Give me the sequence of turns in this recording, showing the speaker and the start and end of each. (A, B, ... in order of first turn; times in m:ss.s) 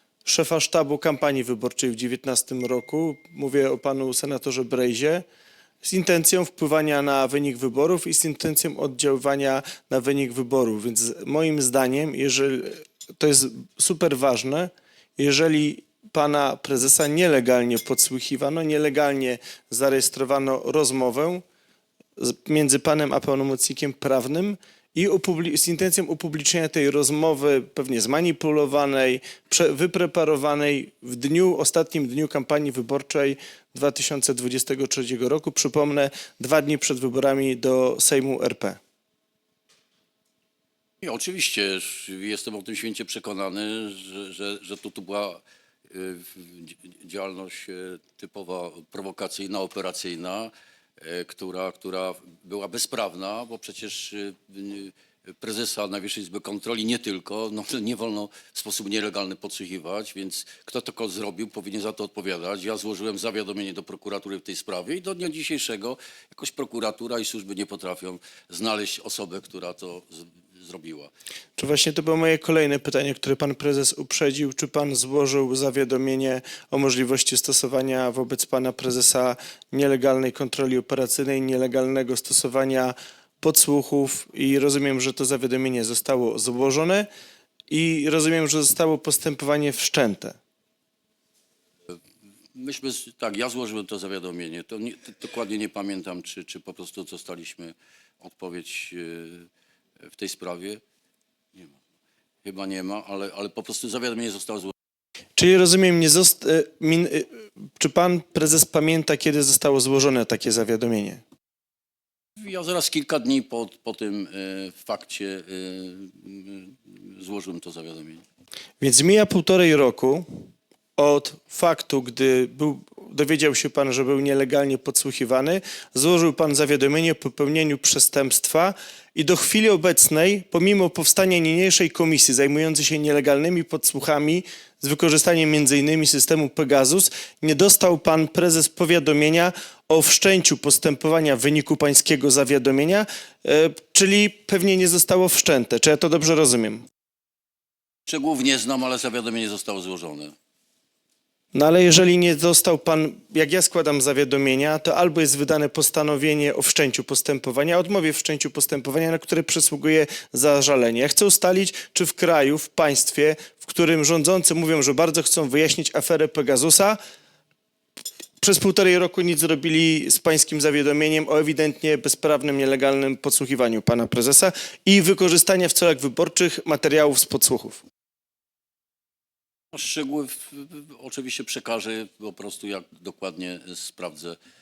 0:00.2-0:05.2 A
0:05.8-0:21.4 A
0:22.2-0:38.8 A
0:41.0-1:11.1 B
1:11.6-1:27.1 A
1:27.7-1:30.4 A
1:32.5-1:39.5 B
1:40.0-1:40.8 B
1:41.5-1:41.8 B
1:42.4-1:44.7 B
1:45.4-1:51.2 A
1:52.4-1:58.2 B
1:58.8-2:00.2 A
2:01.0-2:26.8 A
2:28.1-2:30.3 B
2:31.5-2:47.0 A
2:48.4-2:57.8 A
2:59.7-3:04.4 B